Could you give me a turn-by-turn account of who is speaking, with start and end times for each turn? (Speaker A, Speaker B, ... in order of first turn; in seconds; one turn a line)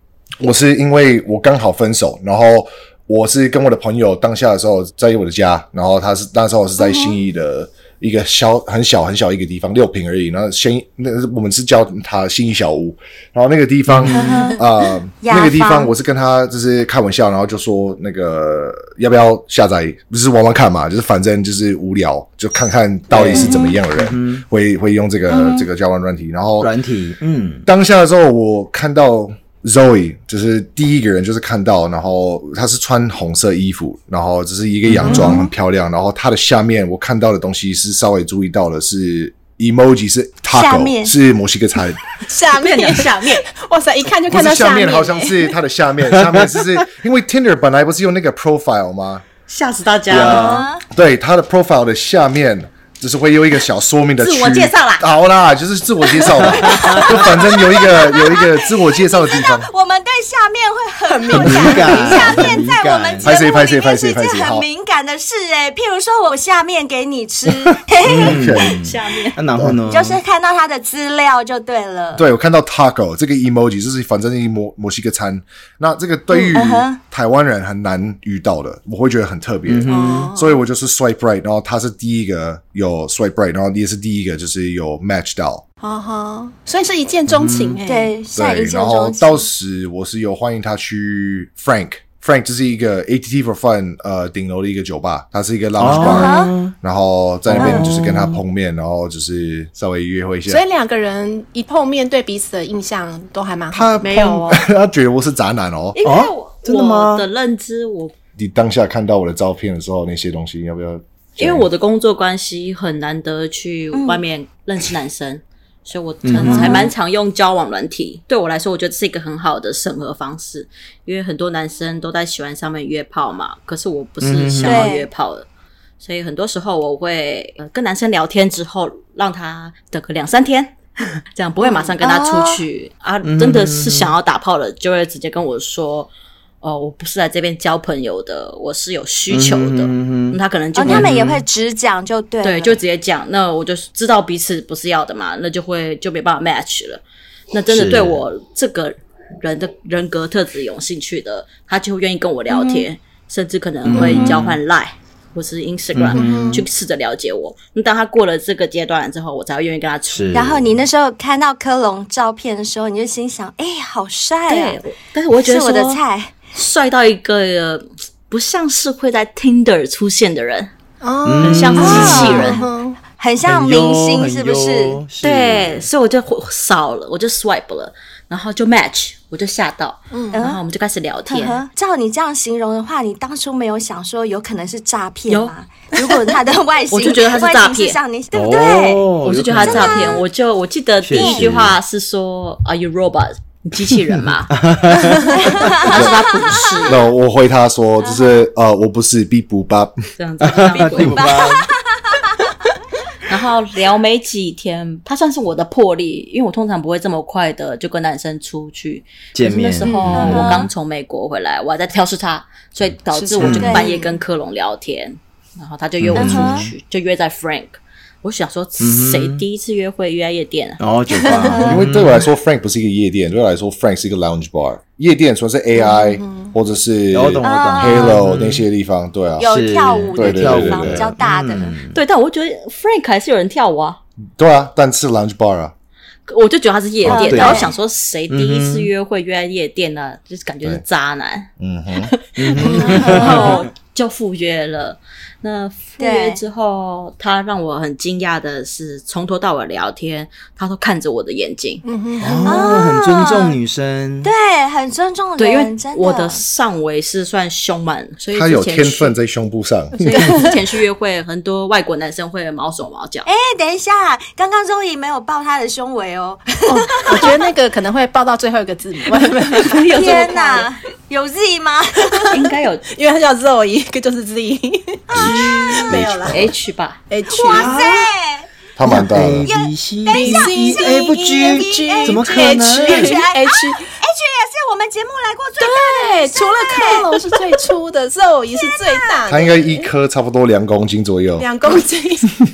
Speaker A: 0.4-26.7
Speaker B: 6.8-7.2
Speaker C: 13.9-14.5
Speaker B: 14.1-14.7
Speaker B: 15.2-15.9
Speaker C: 23.1-24.4
Speaker B: 23.3-23.8
Speaker B: 25.3-25.7
Speaker C: 26.6-27.7
Speaker A: 27.7-42.0
Speaker C: 34.9-35.5
Speaker D: 35.0-35.4
Speaker B: 40.5-41.1
Speaker D: 42.2-45.5
Speaker E: 42.5-43.5
Speaker A: 44.3-49.2
Speaker C: 46.2-46.4
Speaker E: 49.5-50.7
Speaker C: 50.1-50.7
Speaker B: 50.1-50.8
Speaker A: 50.9-59.7
Speaker E: 54.2-55.1
Speaker C: 56.4-57.1
Speaker B: 56.5-68.7
Speaker D: 61.1-62.5
Speaker C: 61.3-63.3
Speaker A: 63.2-64.7
Speaker C: 68.0-70.2
Speaker A: 68.2-68.8
Speaker E: 68.8-69.4
Speaker A: 69.6-69.8
Speaker B: 69.8-72.2
Speaker A: 72.2-85.6
Speaker B: 76.3-77.0
Speaker C: 79.7-80.3
Speaker D: 79.9-80.6
Speaker D: 85.8-88.1
Speaker C: 87.3-87.8
Speaker B: 87.8-89.5
Speaker A: 88.3-100.6
Speaker C: 95.8-96.7
Speaker B: 95.9-96.5
Speaker C: 97.5-98.4
Speaker B: 97.6-97.8
Speaker D: 100.5-104.0
Speaker A: 103.7-106.0
Speaker E: 104.0-104.7
Speaker E: 106.0-108.1
Speaker C: 106.0-107.3
Speaker A: 108.4-111.7
Speaker E: 111.4-125.5
Speaker B: 113.9-114.2
Speaker C: 116.2-116.9
Speaker B: 116.4-116.9
Speaker C: 124.2-124.9
Speaker B: 124.6-125.1
Speaker E: 126.0-130.8
Speaker E: 131.3-136.1
Speaker B: 131.6-132.6
Speaker C: 133.2-134.1
Speaker E: 136.6-141.2
Speaker C: 139.3-141.4
Speaker B: 140.8-142.8
Speaker E: 142.4-160.3
Speaker C: 147.7-148.2
Speaker B: 152.5-152.9
Speaker C: 153.8-154.6
Speaker D: 153.9-154.3
Speaker C: 155.9-156.7
Speaker D: 156.1-156.6
Speaker C: 160.1-160.7
Speaker B: 160.3-164.8
Speaker E: 164.5-166.0
Speaker B: 165.3-166.3
Speaker E: 166.5-170.7
Speaker D: 171.0-173.0
Speaker C: 171.2-172.5
Speaker E: 171.4-172.6
Speaker B: 171.8-175.0
Speaker C: 173.4-175.9
Speaker E: 175.2-181.6
Speaker D: 180.1-180.4
Speaker B: 180.3-180.6
Speaker B: 181.3-190.2
Speaker E: 185.3-185.5
Speaker E: 186.9-188.0
Speaker C: 188.3-190.2
Speaker E: 189.2-194.6
Speaker C: 191.0-191.8
Speaker B: 191.1-191.4
Speaker C: 194.1-195.8
Speaker B: 195.3-197.0
Speaker E: 195.5-197.0
Speaker A: 195.9-196.2
Speaker A: 196.8-199.9
Speaker B: 198.0-198.4
Speaker E: 200.2-201.3
Speaker C: 200.4-201.7
Speaker B: 200.7-202.5
Speaker E: 203.3-220.8
Speaker C: 209.3-210.7
Speaker B: 209.8-210.7
Speaker D: 213.1-213.8
Speaker C: 213.4-213.9
Speaker B: 213.4-214.2
Speaker C: 216.0-216.7
Speaker B: 216.2-216.7
Speaker C: 218.8-219.4
Speaker C: 220.8-222.3
Speaker D: 221.1-221.7
Speaker B: 221.4-221.8
Speaker A: 221.7-229.5
Speaker D: 225.8-226.5
Speaker C: 227.1-228.7
Speaker B: 227.4-228.2
Speaker B: 229.4-231.8
Speaker C: 229.5-232.0
Speaker A: 230.2-231.1
Speaker E: 231.9-234.0
Speaker A: 234.4-235.7
Speaker E: 236.3-251.8
Speaker C: 237.1-237.7
Speaker B: 237.1-237.7
Speaker C: 238.3-238.9
Speaker A: 241.6-242.1
Speaker C: 242.4-243.6
Speaker B: 242.7-243.7
Speaker B: 246.0-246.4
Speaker D: 251.8-252.7
Speaker C: 252.2-254.3
Speaker B: 252.4-253.6
Speaker B: 254.2-256.4
Speaker E: 255.4-259.2
Speaker A: 258.3-260.1
Speaker E: 260.0-263.3
Speaker D: 260.1-260.5
Speaker B: 263.2-267.4
Speaker D: 266.7-270.2
Speaker E: 269.5-270.7
Speaker B: 269.9-272.3
Speaker E: 272.3-272.9
Speaker D: 272.9-276.3
Speaker B: 275.1-276.0
Speaker E: 275.2-277.0
Speaker C: 275.9-276.2
Speaker D: 277.1-277.8
Speaker B: 277.3-278.5
Speaker C: 277.5-278.1
Speaker A: 278.8-279.5
Speaker C: 278.9-283.2
Speaker B: 279.0-287.1
Speaker D: 280.1-283.9
Speaker D: 285.6-289.9
Speaker B: 288.5-289.0
Speaker A: 289.3-291.5
Speaker D: 291.4-292.3